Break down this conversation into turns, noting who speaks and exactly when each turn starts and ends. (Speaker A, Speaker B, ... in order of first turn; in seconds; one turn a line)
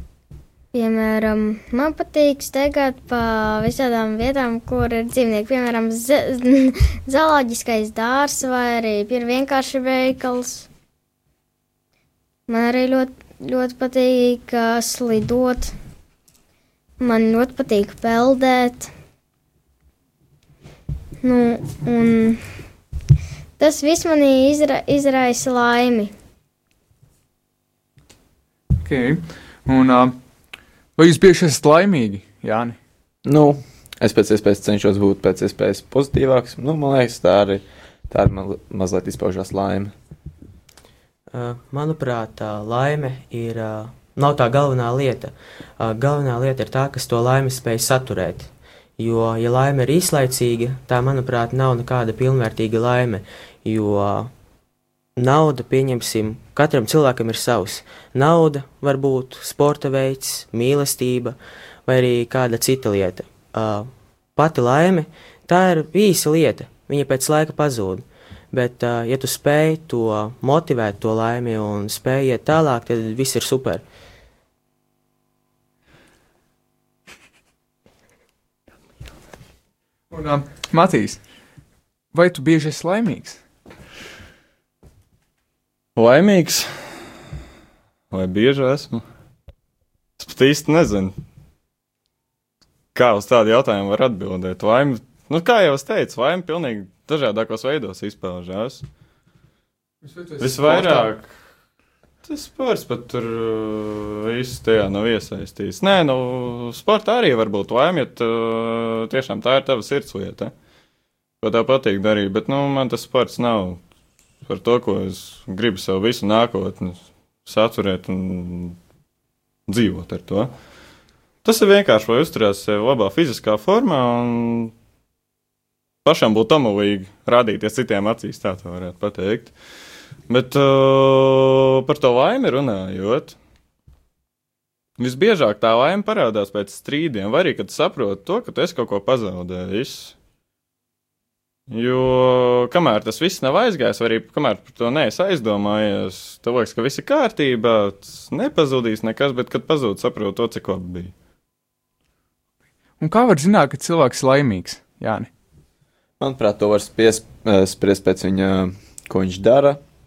Speaker A: 0.7-10.7
Speaker A: 12.5-15.7
Speaker A: 17.0-18.9
Speaker A: 21.2-22.4
Speaker A: 23.6-26.1
Speaker B: 28.8-30.2
Speaker B: 30.9-32.8
Speaker C: 33.2-39.9
Speaker D: 41.3-54.3
Speaker D: 55.2-73.8
Speaker B: 80.1-81.3
Speaker B: 82.1-83.4
Speaker E: 85.9-87.1
Speaker E: 88.1-89.0
Speaker E: 90.2-91.1
Speaker E: 92.9-98.9
Speaker B: 100.0-101.1
Speaker E: 100.4-101.3
Speaker E: 102.2-110.5
Speaker E: 111.4-113.8
Speaker E: 114.4-118.8
Speaker E: 119.7-120.5
Speaker E: 121.4-124.7
Speaker E: 126.0-129.5
Speaker E: 130.3-133.3
Speaker E: 135.0-140.1
Speaker E: 141.7-151.1
Speaker B: 153.0-155.3
Speaker C: 156.2-159.8